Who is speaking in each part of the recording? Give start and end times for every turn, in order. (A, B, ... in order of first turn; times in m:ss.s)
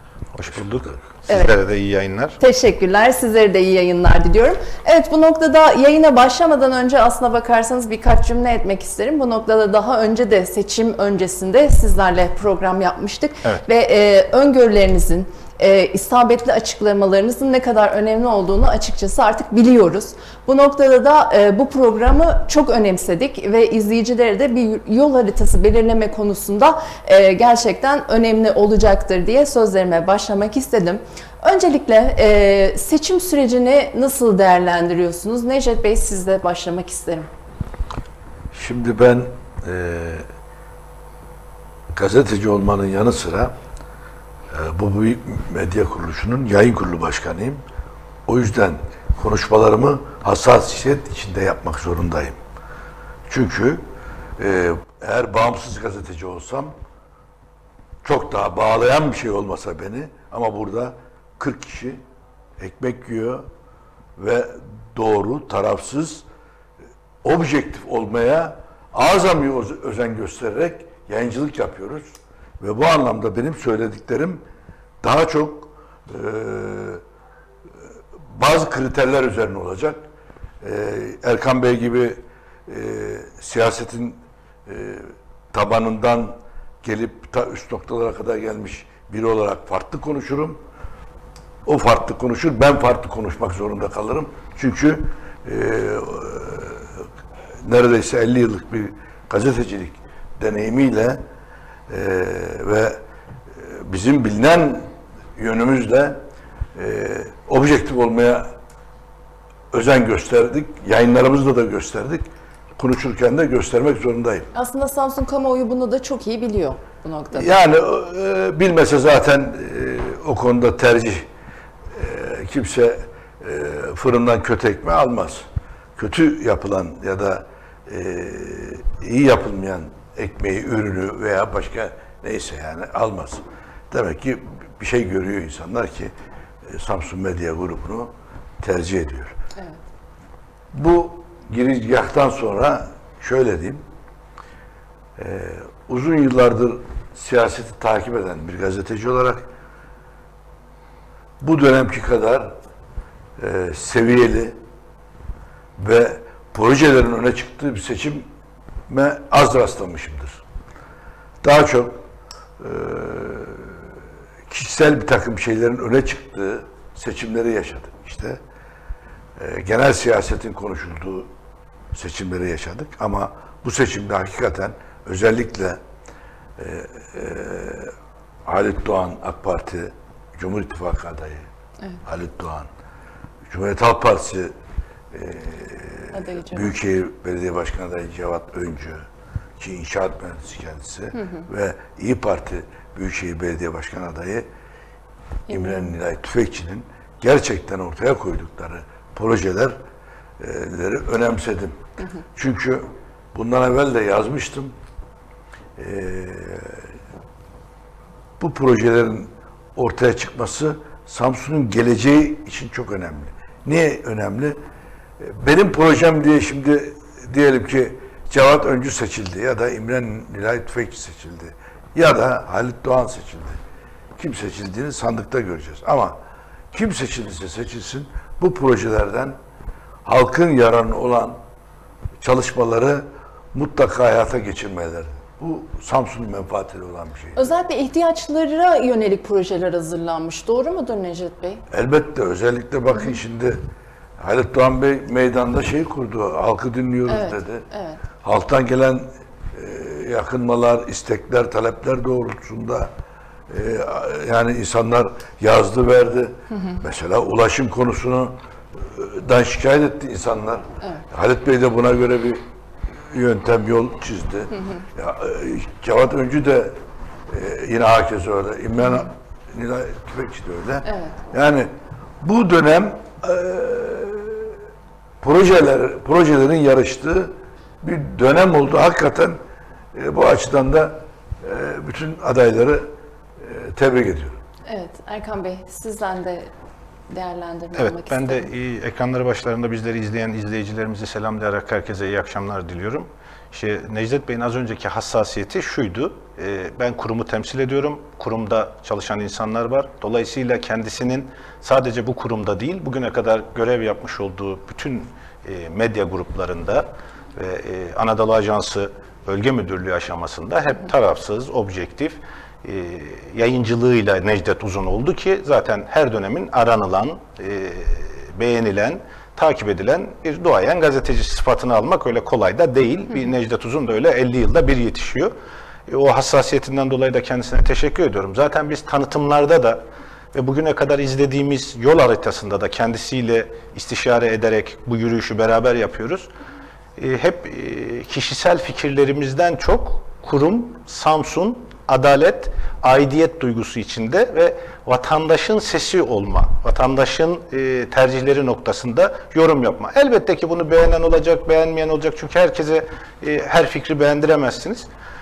0:00.3-0:02.4 A
0:02.4-0:37.3 B
0:38.5-0:40.2 C
0:41.9-0:43.5 C
0:44.5-0:47.6 C
0:48.3-0:52.4 C
0:53.3-0:53.8 C
0:54.4-0:56.7 C
0:58.0-1:02.0 C
1:02.6-1:03.4 C
1:04.2-1:06.2 C
1:07.2-1:12.1 C
1:12.6-1:14.4 C
1:15.0-1:17.0 C
1:18.3-1:20.0 C
1:20.6-1:30.6 C
1:31.6-1:36.9 C
1:37.6-1:41.2 C
1:41.9-1:43.0 C
1:43.6-1:44.8 C
1:45.4-1:46.2 C
1:46.7-1:48.5 C
1:49.7-1:52.3 C
1:52.8-1:54.5 C
1:54.5-1:57.5 B
1:57.3-2:01.2 C
2:01.9-2:05.4 C
2:06.0-2:16.1 C
2:16.7-2:18.1 C
2:18.6-2:19.3 C
2:20.7-2:23.8 C
2:25.2-2:29.4 C
2:31.4-2:32.5 C
2:33.4-2:34.6 C
2:35.8-2:38.2 C
2:38.9-2:40.4 C
2:41.4-2:41.9 C
2:42.6-2:43.7 C
2:44.5-2:48.4 C
2:49.4-2:51.3 C
2:51.9-2:55.8 C
2:56.6-2:57.9 C
2:58.4-3:01.4 C
3:02.0-3:02.7 C
3:03.5-3:04.5 C
3:05.1-3:09.0 C
3:06.1-3:06.7 B
3:09.6-3:14.5 C
3:15.5-3:15.9 B
3:15.5-3:19.8 C
3:20.4-3:21.8 C
3:22.4-3:24.7 C
3:25.8-3:26.8 C
3:28.4-3:34.6 C
3:35.2-3:43.6 C
3:44.2-3:46.2 C
3:46.7-3:49.4 C
3:50.0-3:51.4 C
3:52.2-3:57.4 C
3:57.4-4:01.6 B
4:01.7-4:03.6 C
4:04.2-4:07.6 C
4:07.1-4:08.0 B
4:08.2-4:12.9 C
4:13.5-4:18.3 C
4:18.9-4:22.4 C
4:23.1-4:26.7 C
4:27.3-4:31.7 C
4:30.8-4:31.2 B
4:32.2-4:34.5 C
4:35.2-4:39.4 C
4:39.9-4:42.8 C
4:43.4-4:44.4 C
4:44.7-4:46.5 B
4:47.1-4:48.5 B
4:47.8-5:25.3 A
5:25.9-5:29.8 A
5:30.3-5:36.3 A
5:37.0-5:54.9 A